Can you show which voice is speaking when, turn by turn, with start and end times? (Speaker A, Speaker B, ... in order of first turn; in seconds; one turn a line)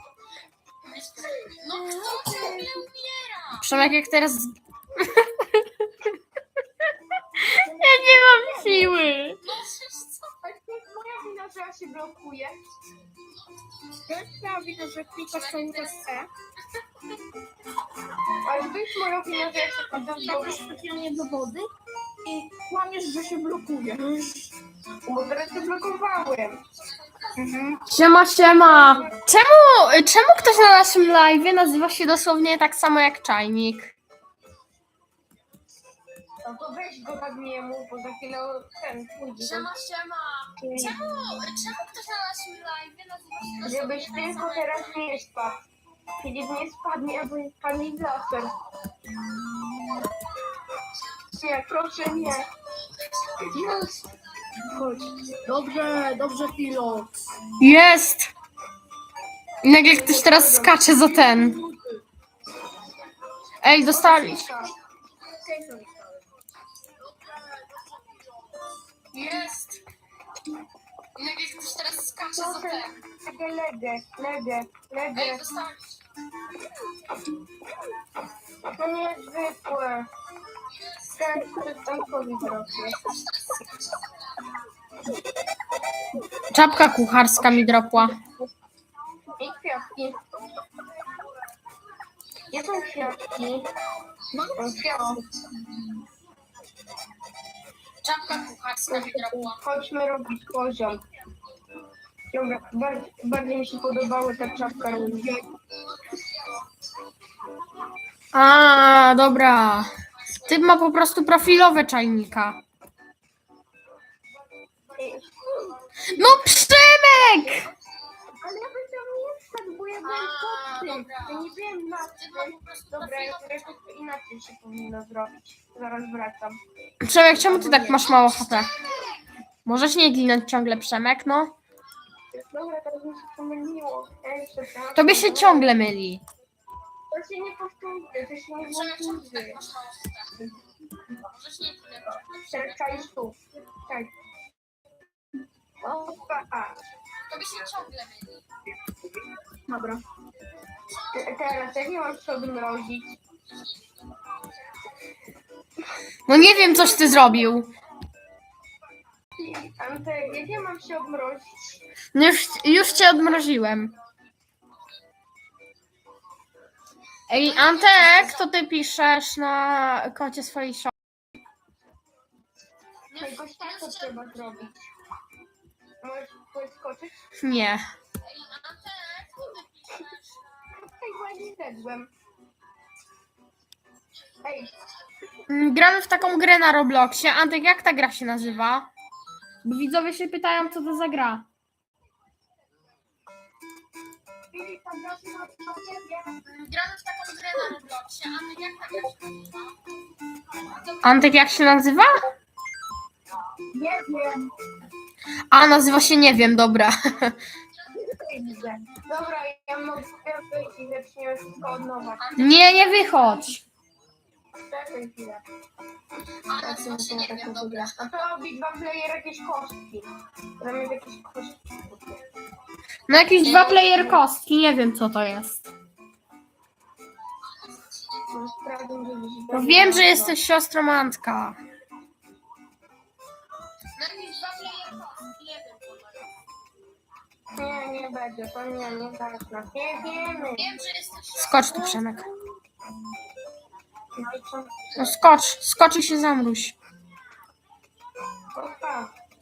Speaker A: 0.9-6.1
Speaker B: 1.3-2.8
Speaker A: 7.4-10.2
Speaker C: 7.6-8.9
Speaker B: 10.4-12.6
Speaker C: 14.1-16.3
Speaker A: 15.3-15.9
Speaker B: 18.4-20.6
Speaker C: 19.9-21.7
Speaker C: 22.2-24.4
Speaker B: 25.1-26.6
Speaker C: 27.4-27.8
Speaker A: 27.9-33.9
Speaker B: 28.7-29.1
Speaker B: 36.5-39.7
Speaker A: 39.4-44.9
Speaker B: 40.6-41.0
Speaker B: 43.6-45.6
Speaker B: 46.2-48.5
Speaker B: 51.3-52.5
Speaker C: 53.5-53.9
Speaker C: 54.7-57.3
Speaker A: 57.6-58.3
Speaker A: 59.6-61.6
Speaker B: 59.9-60.8
Speaker C: 61.2-62.0
Speaker A: 63.6-64.6
Speaker B: 63.9-64.7
Speaker C: 65.3-66.3
Speaker A: 69.1-69.8
Speaker A: 71.2-72.9
Speaker B: 72.3-75.5
Speaker A: 75.2-75.9
Speaker B: 78.8-80.1
Speaker B: 81.2-83.0
Speaker A: 83.0-83.7
Speaker A: 86.5-88.2
Speaker B: 87.4-88.2
Speaker B: 89.4-90.2
Speaker B: 92.5-93.7
Speaker C: 94.3-95.2
Speaker B: 94.6-95.2
Speaker A: 98.0-99.5
Speaker B: 98.9-101.0
Speaker B: 102.3-105.3
Speaker C: 104.6-105.5
Speaker A: 108.3-109.9
Speaker A: 110.4-112.6
Speaker B: 115.0-116.4
Speaker A: 116.1-117.7
Speaker B: 117.2-117.6
Speaker B: 118.3-126.6
Speaker A: 120.1-121.5
Speaker A: 122.3-123.4
Speaker A: 127.0-128.8
Speaker B: 127.3-128.1
Speaker A: 129.7-131.5
Speaker B: 132.3-135.7
Speaker A: 134.9-136.2
Speaker B: 137.1-139.6
Speaker A: 138.7-140.2
Speaker A: 141.3-142.9
Speaker B: 142.5-144.1
Speaker B: 145.8-146.8
Speaker A: 147.3-148.4
Speaker C: 149.7-150.0
Speaker B: 151.1-153.2
Speaker A: 156.3-157.7
Speaker B: 159.4-161.8
Speaker A: 162.1-163.9
Speaker A: 167.3-170.9
Speaker A: 173.1-174.3
Speaker B: 173.2-174.9
Speaker B: 176.0-177.2
Speaker A: 177.4-180.1
Speaker B: 180.7-182.1
Speaker B: 184.4-184.7
Speaker A: 185.5-188.9
Speaker A: 189.6-191.5
Speaker B: 194.5-196.4
Speaker A: 196.5-199.1
Speaker A: 201.0-202.2
Speaker B: 203.8-204.4
Speaker A: 205.5-207.4
Speaker C: 208.2-208.8
Speaker B: 208.3-212.6
Speaker A: 212.4-213.6
Speaker B: 214.7-215.4
Speaker A: 216.5-217.9
Speaker B: 216.5-220.1
Speaker B: 220.6-222.2
Speaker A: 223.1-225.7
Speaker B: 223.4-224.2
Speaker B: 228.3-230.4
Speaker A: 229.5-231.6
Speaker A: 234.0-236.2
Speaker B: 237.6-240.7
Speaker A: 240.6-242.3
Speaker B: 241.7-242.3
Speaker B: 244.2-245.2
Speaker A: 245.0-246.8
Speaker B: 248.6-249.1